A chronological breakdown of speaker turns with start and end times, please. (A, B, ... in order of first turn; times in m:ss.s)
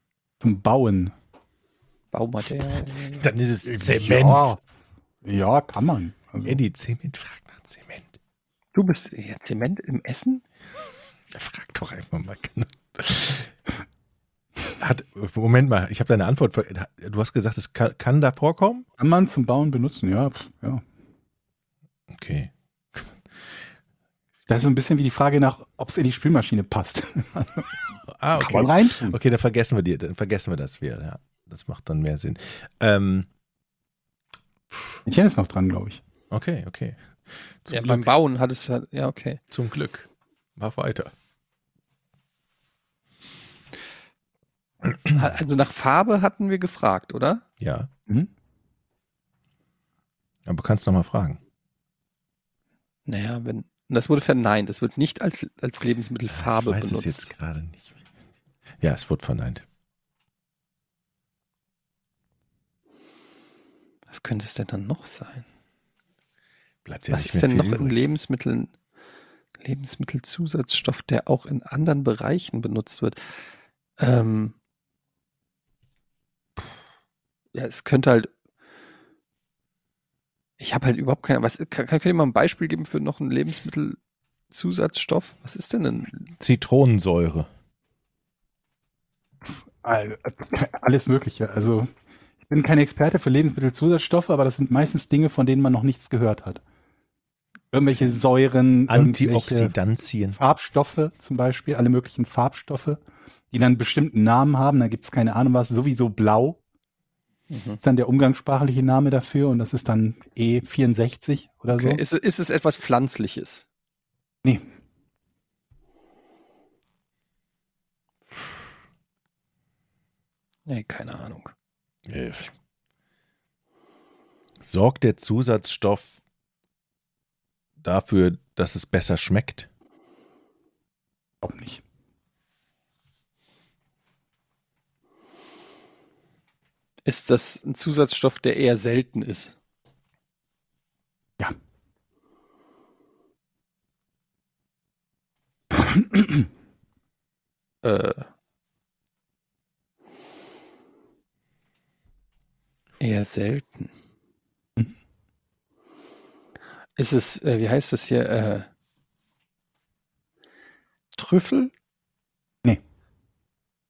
0:00.4-0:01.1 A
0:02.1-0:03.2 B
0:03.1-0:04.6 C
0:03.6-0:04.6 A
0:05.2-0:06.6 A
0:06.4-0:08.2 C
0:08.7-0:10.4 B
0:11.3-0:13.5 C
0:14.7-0:18.8 C
0:19.0-0:20.8 A
0:22.1-0:23.0 C
0:24.5-0:27.7 A
0:28.2-0:33.3 C
0:28.3-0:29.2 A
0:35.0-0:36.0 A
0:36.3-0:37.0 C
0:37.6-0:38.1 C
0:37.7-0:39.4 B
0:39.5-0:41.1 C
0:45.1-0:47.4 B
0:47.6-0:47.9 C
0:50.4-0:51.4 C
0:53.1-0:57.3 B
0:56.3-0:57.9 C
0:58.8-0:59.6 C
1:04.1-1:05.4 B
1:06.8-1:08.0 C
1:07.1-1:08.7 B
1:09.6-1:13.2 B
1:14.0-1:14.5 B
1:17.5-1:18.3 B
1:20.6-1:24.0 B
1:24.5-1:26.2 B
1:26.4-1:27.5 C
1:29.5-1:31.9 A
1:32.5-1:36.6 A
1:37.7-1:39.7 A
1:38.9-1:40.4 C
1:40.3-1:46.6 A
1:47.5-1:47.8 B
1:47.8-1:52.0 A
1:51.7-1:53.6 B
2:00.7-2:01.5 B
2:02.1-2:02.5 C
2:04.6-2:06.2 C
2:07.8-2:09.7 C
2:11.4-2:11.8 A
2:17.0-2:19.6 B
2:25.7-2:26.5 A
2:27.8-2:28.3 B
2:33.0-2:33.9 B
2:37.0-2:38.7 B
2:41.2-2:41.7 B